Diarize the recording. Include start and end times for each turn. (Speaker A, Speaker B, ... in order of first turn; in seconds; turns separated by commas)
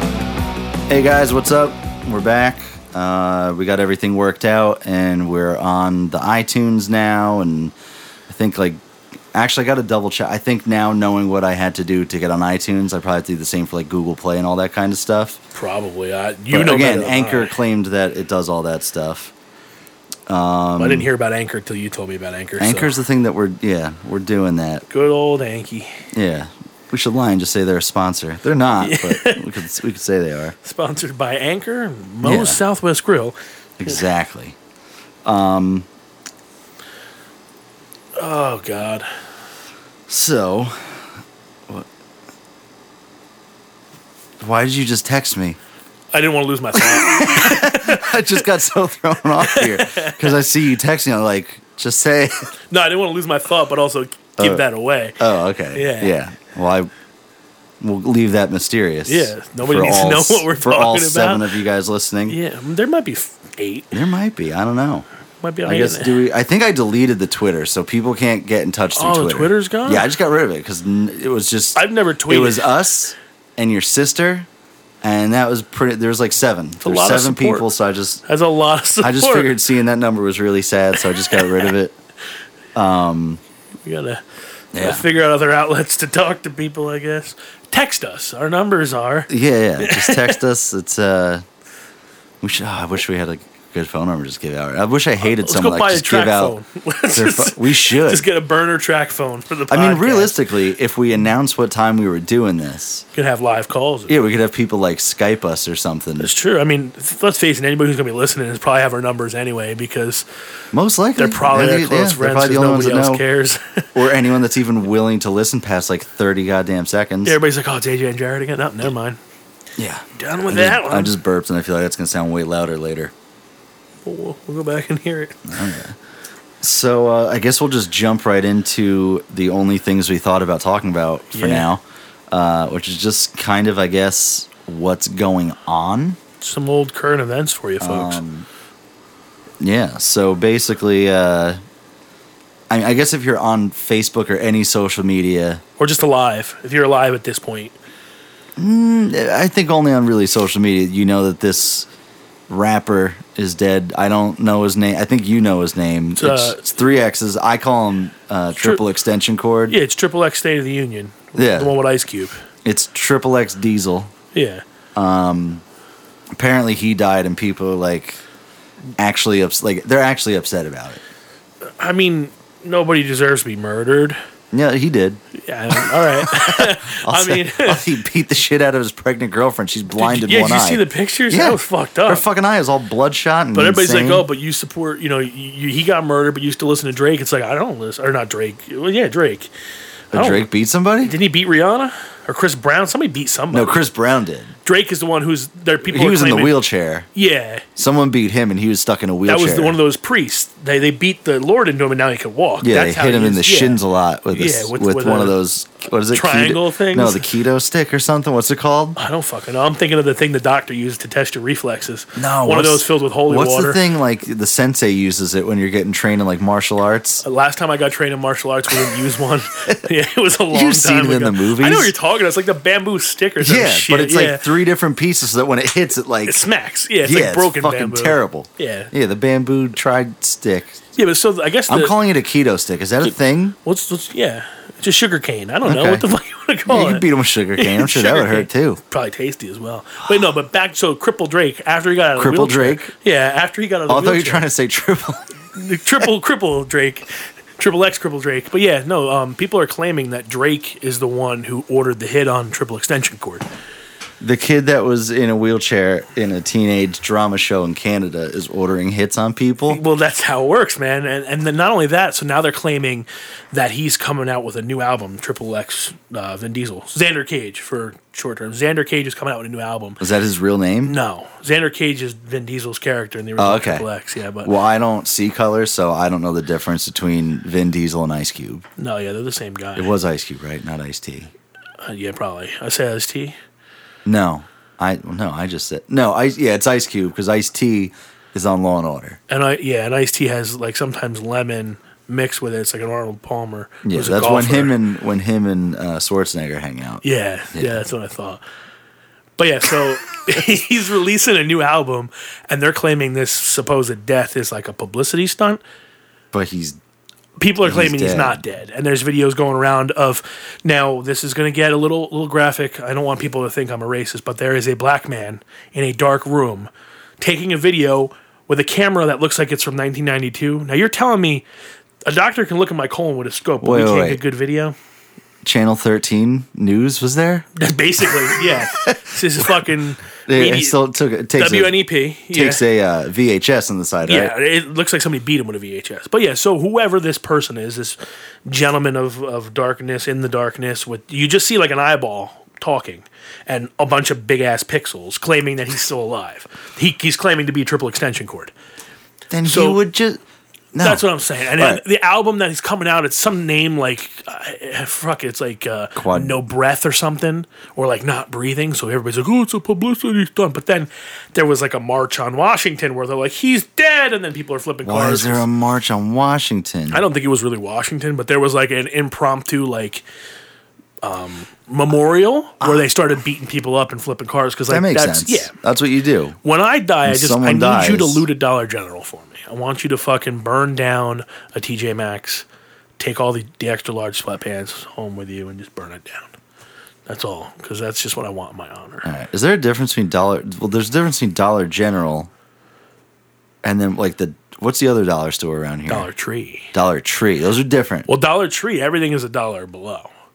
Speaker A: 0.9-7.8, Speaker A: 8.3-8.8, Speaker A: 9.3-15.4, Speaker B: 15.6-17.6, Speaker A: 16.5-19.3, Speaker A: 20.3-21.1, Speaker B: 20.8-22.9, Speaker A: 22.6-24.9, Speaker B: 24.9-26.1, Speaker A: 26.1-30.6, Speaker B: 28.8-29.5, Speaker B: 30.6-33.4, Speaker A: 32.2-32.6, Speaker A: 33.8-34.6, Speaker A: 35.2-35.9, Speaker B: 38.2-39.1, Speaker A: 40.1-41.0, Speaker A: 44.4-45.6, Speaker B: 46.1-48.4, Speaker A: 46.7-52.4, Speaker B: 49.4-50.4, Speaker B: 52.7-55.2, Speaker A: 54.4-54.6, Speaker A: 55.2-56.9, Speaker B: 55.7-56.1, Speaker A: 57.8-62.4, Speaker B: 59.1-61.5, Speaker B: 62.3-64.0, Speaker A: 63.9-65.1, Speaker B: 65.4-66.2, Speaker A: 65.7-74.5, Speaker B: 69.0-70.0, Speaker B: 71.8-72.7, Speaker A: 75.0-78.2, Speaker B: 76.8-77.7, Speaker B: 78.2-79.5, Speaker A: 79.0-82.0, Speaker A: 82.8-83.4, Speaker B: 83.8-84.2, Speaker A: 84.7-85.0, Speaker B: 84.8-90.4, Speaker A: 89.3-91.4, Speaker A: 92.4-96.6, Speaker B: 95.2-100.4, Speaker A: 97.1-98.2, Speaker A: 99.7-103.0, Speaker B: 103.1-104.2, Speaker A: 104.1-106.3, Speaker B: 106.2-110.2, Speaker A: 110.7-113.2, Speaker B: 111.2-114.0, Speaker A: 114.0-117.4, Speaker B: 117.2-119.2, Speaker A: 119.8-123.1, Speaker B: 120.2-121.2, Speaker B: 124.0-125.8, Speaker A: 125.5-126.0, Speaker A: 126.6-136.2, Speaker B: 131.3-131.7, Speaker B: 136.4-138.2, Speaker A: 137.8-138.5, Speaker A: 139.6-141.6, Speaker A: 142.7-145.6, Speaker B: 145.8-147.8, Speaker A: 148.6-151.9, Speaker A: 152.5-159.8, Speaker B: 156.2-156.7, Speaker B: 158.6-158.8, Speaker B: 159.7-162.4, Speaker A: 161.3-161.7, Speaker A: 162.7-164.1, Speaker B: 164.3-164.6, Speaker A: 165.0-165.6, Speaker A: 166.3-168.2, Speaker A: 169.0-171.0, Speaker B: 171.8-174.2, Speaker A: 174.5-184.3, Speaker B: 175.3-177.9, Speaker B: 180.0-182.3, Speaker B: 183.5-189.5, Speaker A: 190.1-191.2, Speaker B: 190.1-190.5, Speaker B: 191.0-193.8, Speaker A: 193.5-194.5, Speaker B: 194.7-196.6, Speaker A: 195.8-197.1, Speaker B: 197.2-197.7, Speaker A: 197.8-199.8, Speaker B: 199.3-203.8, Speaker A: 202.6-209.0, Speaker B: 204.3-205.4, Speaker B: 206.1-207.3, Speaker B: 209.0-213.8, Speaker A: 212.2-217.2, Speaker B: 217.2-224.5, Speaker A: 220.5-221.9, Speaker A: 223.4-226.4, Speaker B: 226.3-228.9, Speaker A: 227.0-230.8, Speaker B: 230.9-231.9, Speaker A: 231.7-233.6, Speaker B: 233.6-237.1, Speaker A: 235.7-236.1, Speaker A: 236.7-238.8, Speaker B: 237.6-244.5, Speaker A: 242.2-242.9, Speaker A: 243.9-245.2, Speaker B: 245.5-253.4, Speaker A: 254.2-259.8, Speaker B: 259.7-270.0, Speaker A: 270.0-271.0, Speaker B: 270.9-274.5, Speaker A: 273.4-273.9, Speaker A: 274.4-278.6, Speaker B: 278.8-279.9, Speaker A: 279.8-281.3, Speaker B: 281.8-283.4, Speaker A: 284.1-289.2, Speaker B: 289.3-294.8, Speaker A: 293.8-297.0, Speaker B: 297.0-298.4, Speaker A: 297.5-297.8, Speaker B: 299.4-305.6, Speaker A: 306.3-306.8, Speaker B: 307.4-321.4, Speaker A: 307.6-308.4, Speaker B: 322.1-324.8, Speaker A: 323.6-324.2, Speaker A: 325.4-327.5, Speaker B: 327.6-330.8, Speaker A: 328.1-329.6, Speaker A: 330.3-331.8, Speaker B: 331.4-332.6, Speaker A: 332.3-334.3, Speaker B: 334.1-348.5, Speaker A: 349.3-350.2, Speaker B: 349.4-349.8, Speaker A: 350.7-351.0, Speaker B: 350.8-365.5, Speaker A: 351.6-351.8, Speaker A: 356.0-356.4, Speaker A: 364.8-367.0, Speaker B: 366.9-370.0, Speaker B: 371.0-375.5, Speaker A: 372.6-372.9, Speaker A: 374.7-376.4, Speaker B: 376.4-382.4, Speaker A: 377.1-378.2, Speaker B: 383.0-386.3, Speaker B: 387.1-389.1, Speaker A: 389.0-392.3, Speaker A: 393.6-396.1, Speaker B: 395.9-396.7, Speaker A: 396.7-398.1, Speaker B: 398.1-400.1